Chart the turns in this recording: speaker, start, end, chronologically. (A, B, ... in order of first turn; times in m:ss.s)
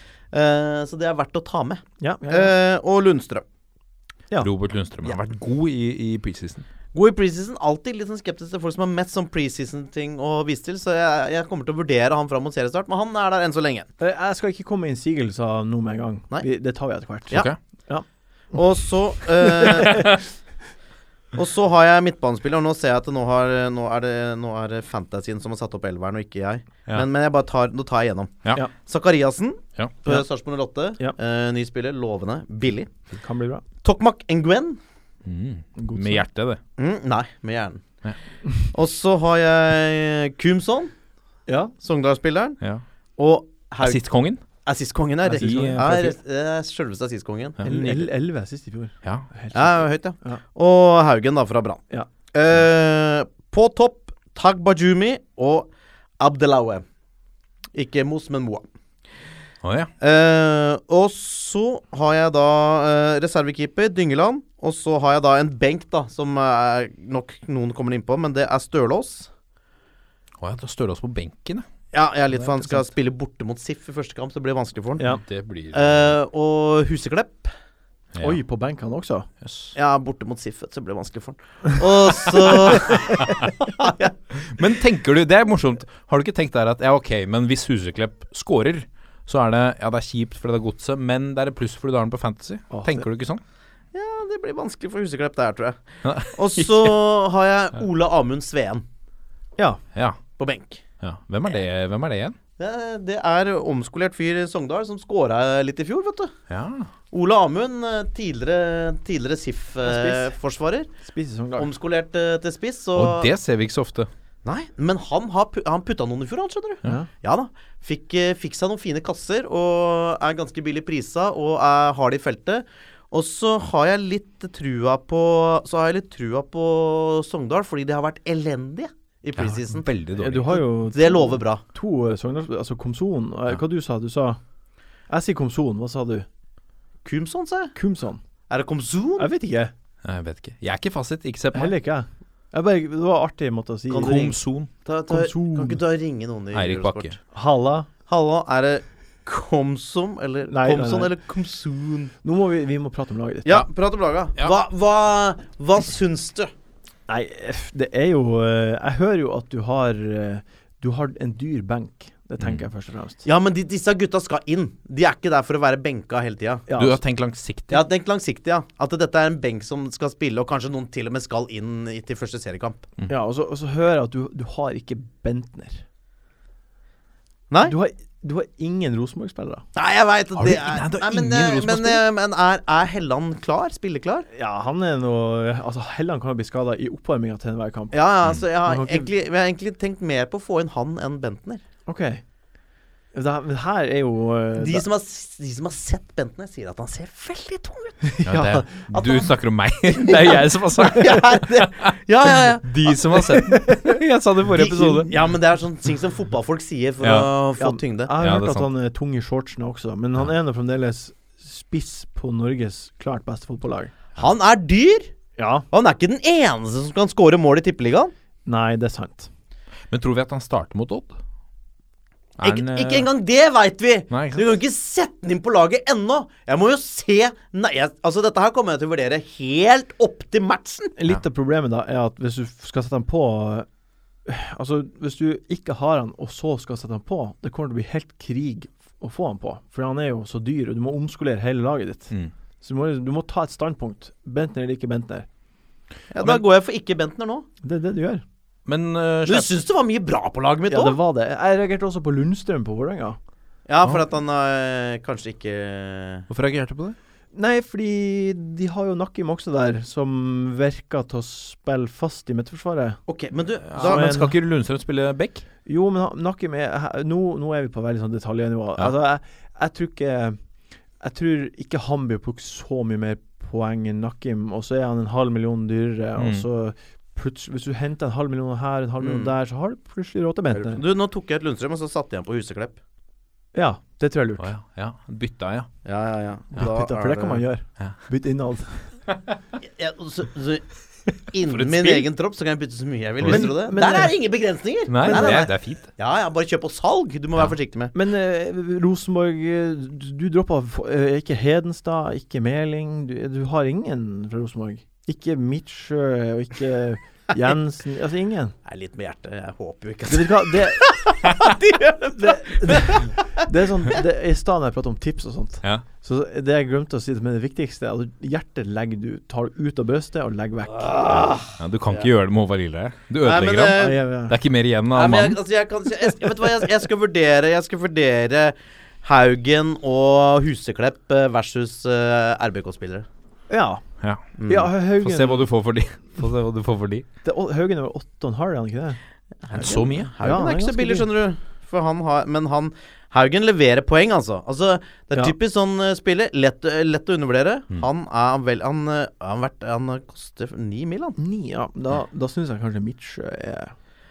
0:00.3-0:03.4 A
0:02.0-0:02.5 B
0:04.4-0:06.6 C
0:06.9-0:13.9 A
0:14.0-0:18.0 B
0:17.3-0:17.6 C
0:18.5-0:20.2 A
0:19.4-0:20.2 B
0:21.3-0:32.9 A
0:33.1-0:33.6 B
0:33.8-0:34.8 A
0:35.2-0:36.6 C
0:35.8-0:36.3 B
0:36.8-0:37.8 A
0:38.7-0:40.9 A
0:41.5-0:41.7 B
0:41.8-0:42.6 A
0:43.2-0:44.1 A
0:43.8-0:44.4 C
0:44.6-0:48.0 A
0:45.2-0:46.2 B
0:45.4-0:45.9 C
0:47.6-0:50.4 B
0:49.5-0:56.8 A
0:57.7-0:58.7 A
0:59.6-0:59.9 C
1:00.0-1:09.3 A
1:10.4-1:11.6 C
1:11.9-1:15.1 A
1:15.2-1:16.2 C
1:15.7-1:17.5 A
1:18.1-1:18.4 C
1:18.2-1:19.3 B
1:19.4-1:19.8 C
1:19.8-1:24.1 A
1:22.8-1:23.5 C
1:24.4-1:33.4 C
1:32.7-1:33.1 B
1:33.9-1:38.8 A
1:36.0-1:37.0 C
1:39.9-1:40.2 C
1:40.4-1:40.8 A
1:41.0-1:42.4 C
1:42.6-1:46.3 A
1:46.5-1:46.9 C
1:47.1-1:50.9 A
1:49.8-1:50.3 B
1:51.0-1:51.7 B
1:51.6-1:53.3 A
1:53.0-1:54.1 C
1:54.4-2:09.9 A
2:09.4-2:10.6 C
2:10.2-2:14.4 B
2:10.5-2:11.6 A
2:15.1-2:16.3 B
2:17.0-2:17.7 A
2:17.8-2:18.2 B
2:18.5-2:19.3 A
2:19.2-2:19.7 B
2:20.0-2:21.8 C
2:21.5-2:24.3 B
2:23.9-2:27.2 A
2:24.0-2:24.7 C
2:25.1-2:25.8 B
2:26.5-2:27.2 C
2:27.3-2:27.9 B
2:28.1-2:32.1 A
2:30.5-2:31.1 B
2:32.2-2:33.6 B
2:33.4-2:36.5 A
2:37.1-2:43.2 B
2:42.4-2:42.6 C
2:43.2-2:46.7 A
2:46.7-2:47.0 B
2:46.7-2:47.9 C
2:47.7-2:52.9 A
2:53.1-2:55.8 B
2:57.6-2:59.6 B
2:59.8-3:04.3 A
3:00.4-3:02.0 C
3:04.3-3:08.0 B
3:07.9-3:11.6 A
3:08.6-3:09.1 B
3:11.9-3:12.2 B
3:13.1-3:14.8 B
3:14.6-3:18.2 A
3:18.1-3:18.7 B
3:18.3-3:25.1 C
3:18.9-3:19.3 A
3:20.1-3:23.2 A
3:23.4-3:24.0 B
3:24.5-3:28.1 A
3:27.0-3:27.3 C
3:27.6-3:33.9 B
3:28.2-3:28.7 C
3:34.2-3:35.1 A
3:35.4-3:35.6 B
3:35.7-3:38.1 A
3:38.5-3:39.3 B
3:39.9-3:41.2 C
3:42.4-3:43.1 C
3:42.4-3:50.9 A
3:44.1-3:44.5 C
3:51.0-3:53.7 B
3:54.3-4:05.3 B
4:06.1-4:07.5 A
4:07.6-4:08.2 B
4:08.7-4:09.5 C
4:09.3-4:11.0 A
4:10.7-4:13.2 B
4:13.7-4:16.3 A
4:16.3-4:17.0 C
4:17.3-4:23.0 B
4:23.1-4:24.2 A
4:23.7-4:25.5 C
4:23.8-4:24.4 B
4:25.6-4:30.4 B
4:31.0-4:40.8 B
4:36.2-4:36.4 C
4:39.0-4:39.3 A
4:40.6-4:42.8 A
4:43.5-4:44.5 B
4:44.4-4:45.7 C
4:45.8-4:47.4 A
4:46.6-4:48.9 B
4:49.7-4:50.7 A
4:51.3-4:58.0 A
4:51.5-4:52.1 C
4:53.2-4:53.5 C
4:53.3-4:54.1 B
4:54.9-4:55.9 C
4:55.0-4:55.5 B
4:57.9-5:08.6 B
5:08.7-5:13.2 A
5:10.1-5:10.8 B
5:12.2-5:21.3 B
5:20.7-5:22.1 A
5:21.5-5:25.4 C
5:23.2-5:24.0 A
5:23.8-5:24.4 B
5:24.9-5:33.1 A
5:33.5-5:33.8 B
5:34.0-5:34.3 C
5:34.4-5:34.7 A
5:34.5-5:35.5 B
5:34.9-5:37.1 C
5:37.2-5:39.0 B
5:39.4-5:51.2 A
5:39.6-5:40.1 C
5:40.2-5:41.1 B
5:51.2-5:53.7 B